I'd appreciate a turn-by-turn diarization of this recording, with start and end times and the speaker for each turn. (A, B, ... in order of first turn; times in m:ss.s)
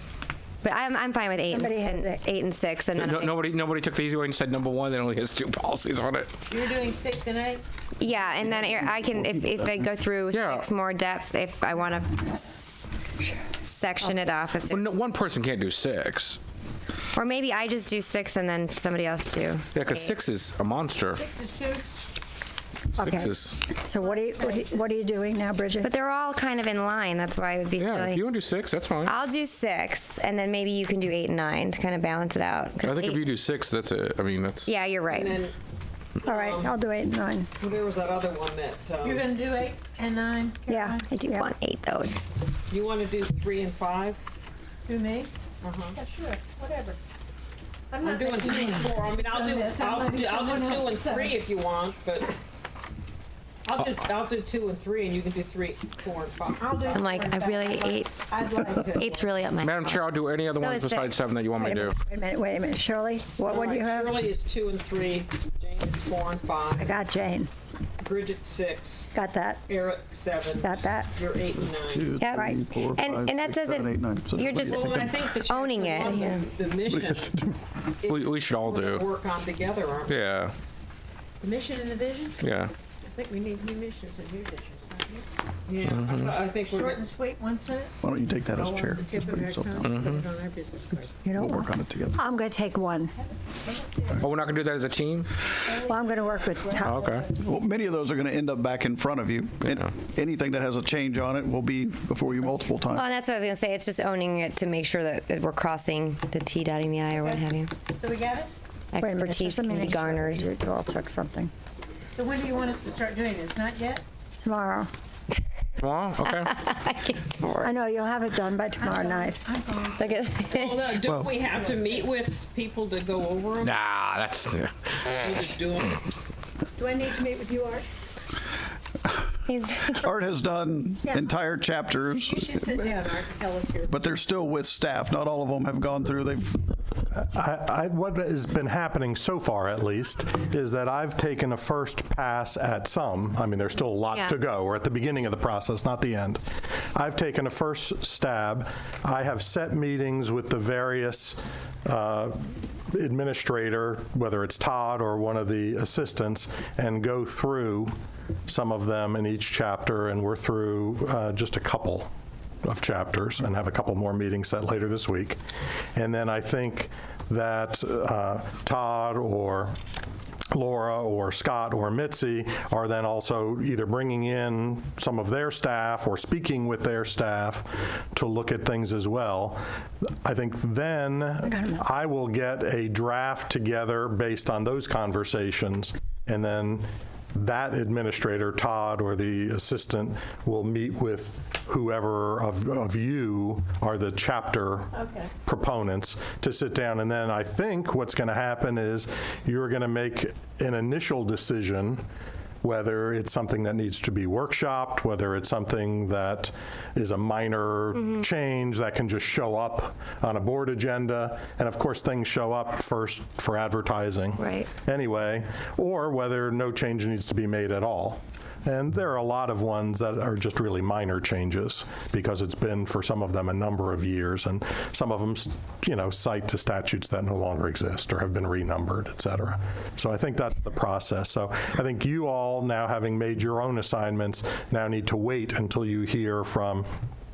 0:00.6-0:03.4 A
0:01.5-0:02.2 B
0:02.9-0:06.4 C
0:06.5-0:07.6 D
0:08.0-0:12.9 A
0:10.3-0:10.7 C
0:13.6-0:14.8 A
0:14.7-0:16.4 C
0:17.1-0:20.1 A
0:19.8-0:21.2 C
0:21.2-0:21.9 D
0:23.0-0:23.6 C
0:23.0-0:25.9 B
0:24.1-0:24.5 D
0:25.8-0:28.2 A
0:27.8-0:29.1 C
0:29.0-0:33.3 A
0:32.8-0:34.7 C
0:34.6-0:35.4 A
0:35.1-0:35.5 E
0:36.2-0:36.7 E
0:36.2-0:37.5 B
0:37.6-0:39.3 E
0:39.0-0:40.9 D
0:40.7-0:41.5 B
0:41.1-0:42.1 A
0:42.7-0:44.2 E
0:44.8-0:45.3 D
0:45.6-0:46.0 E
0:45.9-0:47.0 D
0:47.9-0:51.3 D
0:48.0-0:52.3 E
0:53.7-0:57.0 E
0:56.6-0:59.1 D
0:56.9-0:58.2 A
0:58.8-1:00.0 A
0:59.6-1:02.0 C
1:00.5-1:01.1 A
1:01.6-1:04.2 B
1:03.4-1:07.0 E
1:06.7-1:07.5 B
1:08.0-1:09.1 E
1:09.2-1:09.6 B
1:09.7-1:12.1 E
1:10.6-1:11.1 B
1:11.8-1:15.3 F
1:12.2-1:14.9 A
1:12.3-1:12.6 B
1:14.6-1:17.3 E
1:15.4-1:16.5 A
1:15.9-1:16.4 B
1:16.8-1:17.6 F
1:18.0-1:20.2 E
1:18.1-1:19.1 C
1:20.1-1:20.5 C
1:21.4-1:22.3 D
1:22.4-1:22.7 C
1:23.1-1:25.2 D
1:25.7-1:27.0 E
1:25.8-1:26.4 C
1:26.7-1:28.0 D
1:28.0-1:29.9 F
1:28.6-1:31.1 D
1:29.8-1:30.3 C
1:31.2-1:33.1 B
1:31.3-1:32.2 F
1:34.2-1:35.3 C
1:35.8-1:37.0 B
1:36.8-1:37.3 C
1:37.3-1:43.0 F
1:39.6-1:39.9 C
1:42.9-1:47.7 A
1:48.0-1:48.5 D
1:48.9-1:50.5 A
1:49.0-1:51.5 B
1:52.2-1:54.0 D
1:54.4-1:54.9 B
1:55.8-1:56.5 C
1:56.3-1:57.7 A
1:57.6-1:59.5 B
1:59.0-1:59.9 D
2:00.0-2:01.0 A
2:00.6-2:03.8 E
2:03.6-2:04.7 C
2:05.2-2:06.0 E
2:06.8-2:07.9 D
2:09.5-2:10.1 A
2:10.0-2:13.0 F
2:12.3-2:13.9 D
2:13.9-2:16.6 F
2:17.1-2:37.9 G
2:24.1-2:24.4 A
2:38.5-2:42.1 G
2:42.7-2:45.4 G
2:46.0-2:49.8 G
2:50.5-2:59.6 G
3:00.2-3:14.9 G
3:01.4-3:01.8 B
3:15.4-3:22.0 G
3:22.6-3:56.9 G
3:34.4-3:34.7 A